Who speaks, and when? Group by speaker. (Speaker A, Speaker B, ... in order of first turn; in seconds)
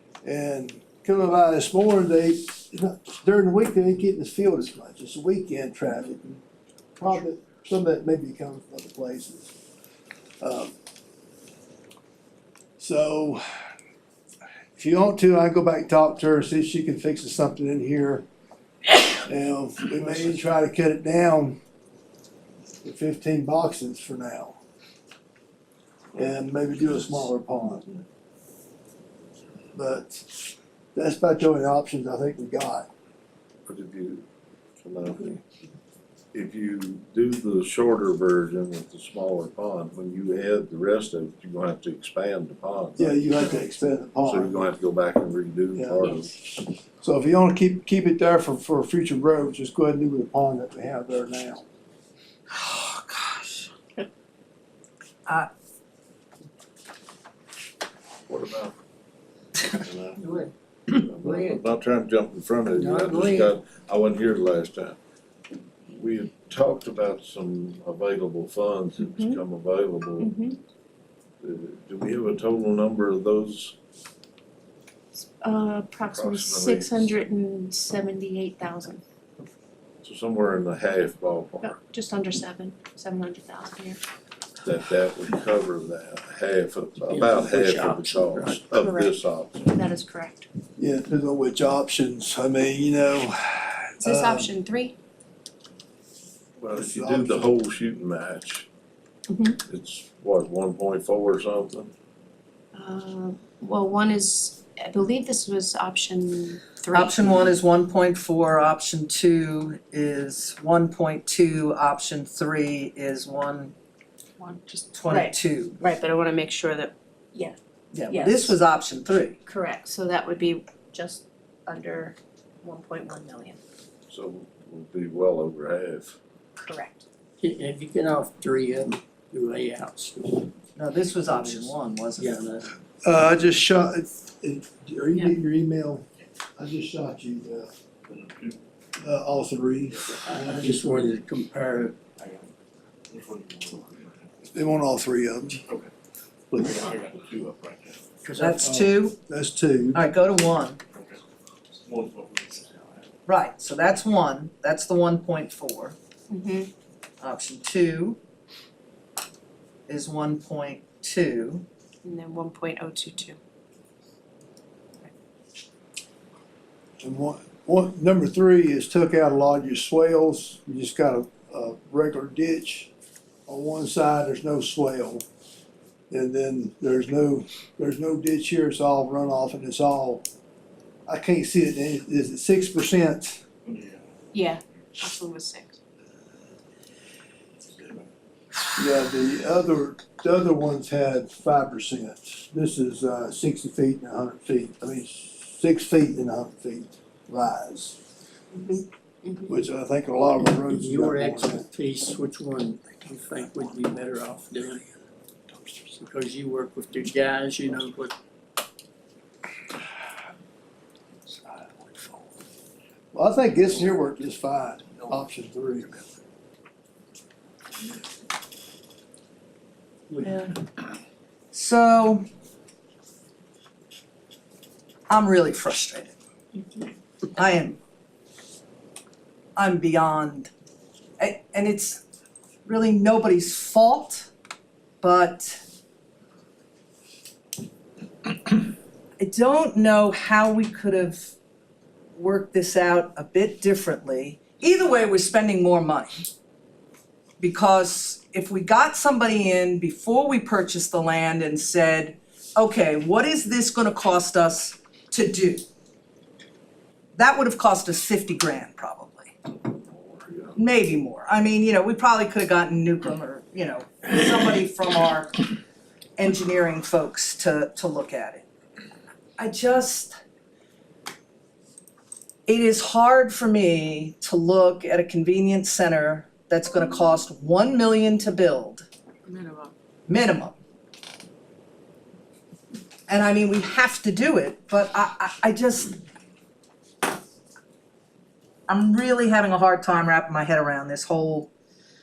Speaker A: 0.2-6.4, 7.0-9.5, 10.4-10.8, 12.8-13.4, 14.7-18.2, 19.2-21.6, 22.8-24.6, 26.1-27.9, 29.7-32.9, 43.0-44.7, 45.7-46.1, 47.0-51.6, 90.8-94.5, 96.7-97.5, 133.0-136.0, 136.6-137.7, 139.0-140.9, 144.5-145.6, 146.5-146.9, 148.2-150.0, 167.0-172.9, 173.5-175.2, 176.1-180.2, 181.1-183.4, 188.8-198.0, 199.5-201.7, 213.1-216.0
Speaker B: 33.6-34.3, 34.8-35.4, 36.3-43.5, 44.2-46.3, 58.3-58.7, 59.6-65.0, 65.9-70.3, 71.4-73.8, 76.1-77.1, 80.0-81.7, 84.6-89.7, 96.6-98.7, 99.7-101.9, 124.1-126.2, 259.6-260.6
Speaker C: 52.5-53.7, 62.7-63.5, 106.9-113.7, 114.9-115.8, 117.9-119.4, 130.8-132.5, 148.4-149.2, 149.9-150.8, 153.3-155.9, 157.2-158.2, 159.9-161.6, 220.2-220.5, 221.5-222.2, 225.1-226.1, 227.3-227.8, 229.6-230.5, 231.2-232.0, 232.6-234.3, 235.0-235.6, 239.2-241.3, 242.2-246.2, 247.4-255.6, 257.1-259.3, 260.6-265.6, 266.2-268.4, 269.4-270.1, 272.5-278.9, 280.1-280.5, 283.1-286.0, 288.7-291.5
Speaker D: 61.2-61.5, 69.0-69.4, 70.2-70.6, 75.1-79.0, 81.6-84.0, 88.7-90.5, 94.0-95.0, 99.3-99.6, 102.7-107.5, 114.4-117.5, 118.1-118.6, 119.5-123.6, 126.6-127.0, 156.3-156.7, 162.0-163.4, 184.3-185.8, 198.5-199.6, 279.2-279.7
Speaker E: 87.1-88.6, 127.4-130.5, 132.2-132.7, 140.2-142.0, 200.7-204.8, 205.9-208.1
Speaker F: 142.2-142.5, 143.1-144.1, 146.6-147.9, 151.8-153.0